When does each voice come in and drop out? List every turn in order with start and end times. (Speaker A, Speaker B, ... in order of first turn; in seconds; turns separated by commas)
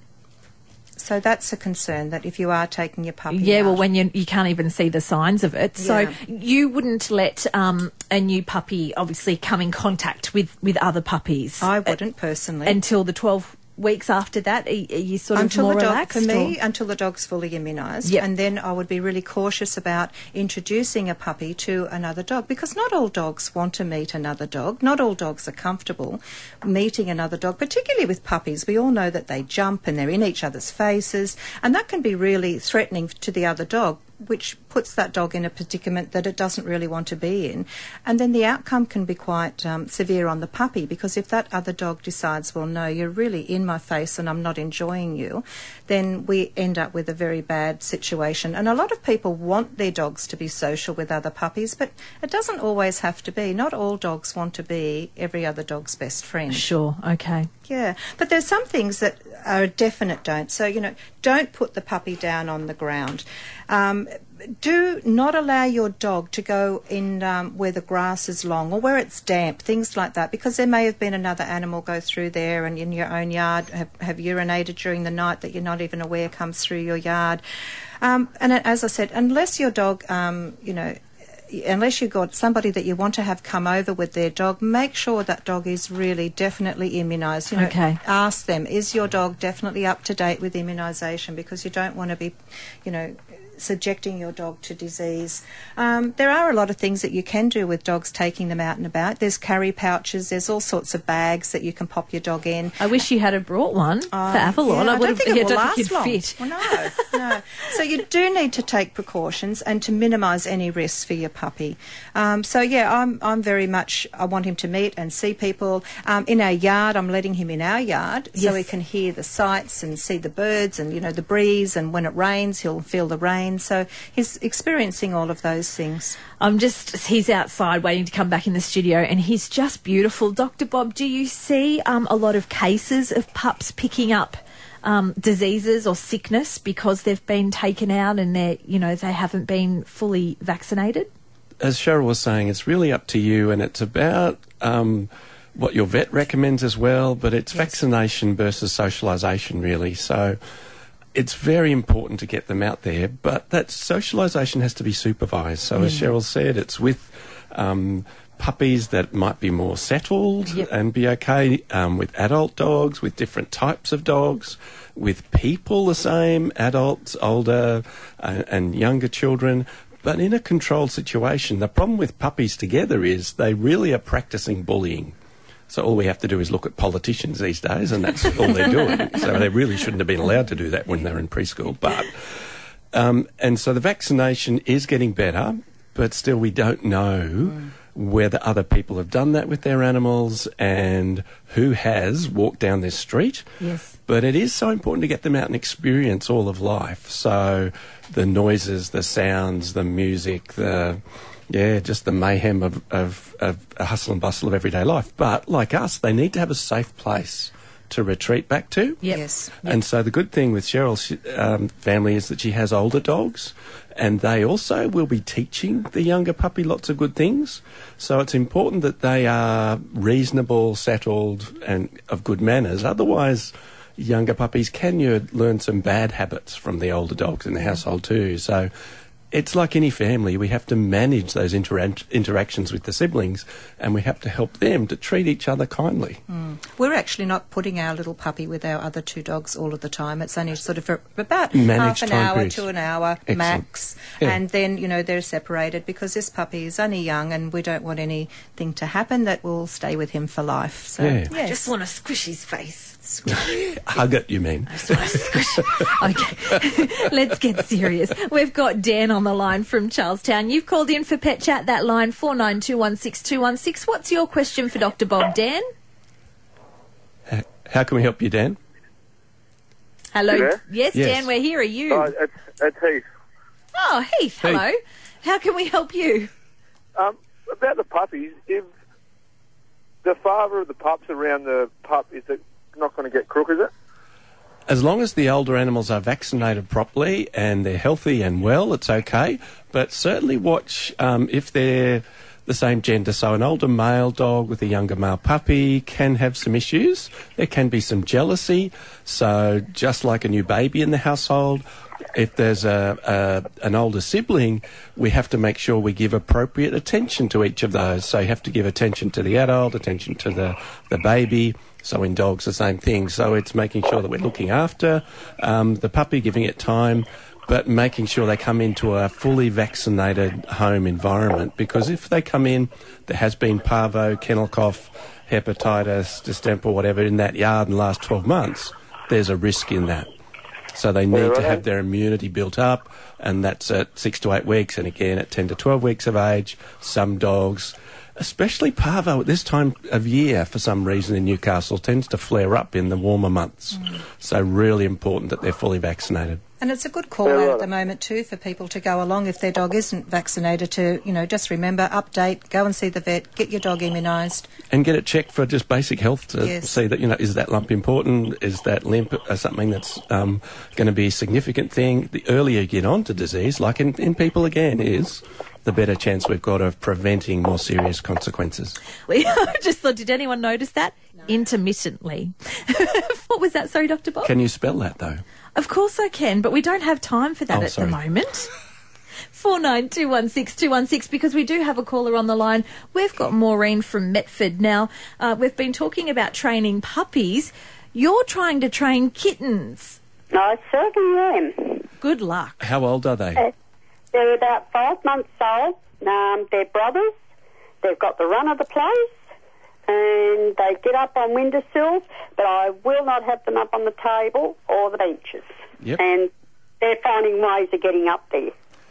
Speaker A: 1.0-3.8, Speaker B: 3.3-11.9, Speaker A: 5.8-6.2, Speaker A: 11.6-12.8, Speaker B: 12.6-16.5, Speaker A: 15.3-56.7, Speaker B: 56.5-57.5, Speaker A: 57.7-77.4, Speaker A: 78.0-102.8, Speaker B: 87.5-88.0, Speaker B: 102.8-107.0, Speaker A: 104.1-126.2, Speaker B: 118.3-118.7, Speaker B: 126.4-141.1, Speaker C: 141.6-150.4, Speaker A: 147.5-147.8, Speaker C: 151.1-175.1, Speaker A: 155.8-156.1, Speaker C: 175.7-182.3, Speaker C: 182.9-193.5, Speaker B: 193.6-193.9, Speaker C: 194.1-209.0, Speaker B: 209.0-209.7, Speaker A: 209.1-209.6, Speaker C: 209.6-228.7, Speaker C: 229.3-236.2, Speaker A: 236.3-251.6, Speaker C: 241.5-242.7, Speaker C: 243.3-243.6, Speaker C: 251.0-251.3, Speaker B: 251.3-253.3, Speaker A: 253.1-253.6, Speaker C: 253.3-256.6, Speaker B: 254.7-265.7, Speaker C: 267.3-268.6, Speaker B: 270.1-272.1, Speaker D: 270.3-270.6, Speaker C: 270.9-271.3, Speaker D: 271.9-273.0, Speaker B: 273.7-276.3, Speaker D: 276.9-278.7, Speaker D: 280.0-283.7, Speaker C: 284.7-330.1, Speaker C: 330.7-346.4, Speaker A: 346.6-354.5, Speaker C: 354.7-368.8, Speaker A: 356.4-356.7, Speaker B: 369.1-374.3, Speaker C: 374.2-375.2, Speaker B: 375.6-378.5, Speaker C: 377.5-378.0, Speaker B: 379.3-390.0, Speaker E: 390.3-391.8, Speaker B: 392.0-392.6, Speaker C: 392.6-393.4, Speaker E: 394.1-397.1, Speaker E: 397.8-399.1, Speaker E: 399.9-408.5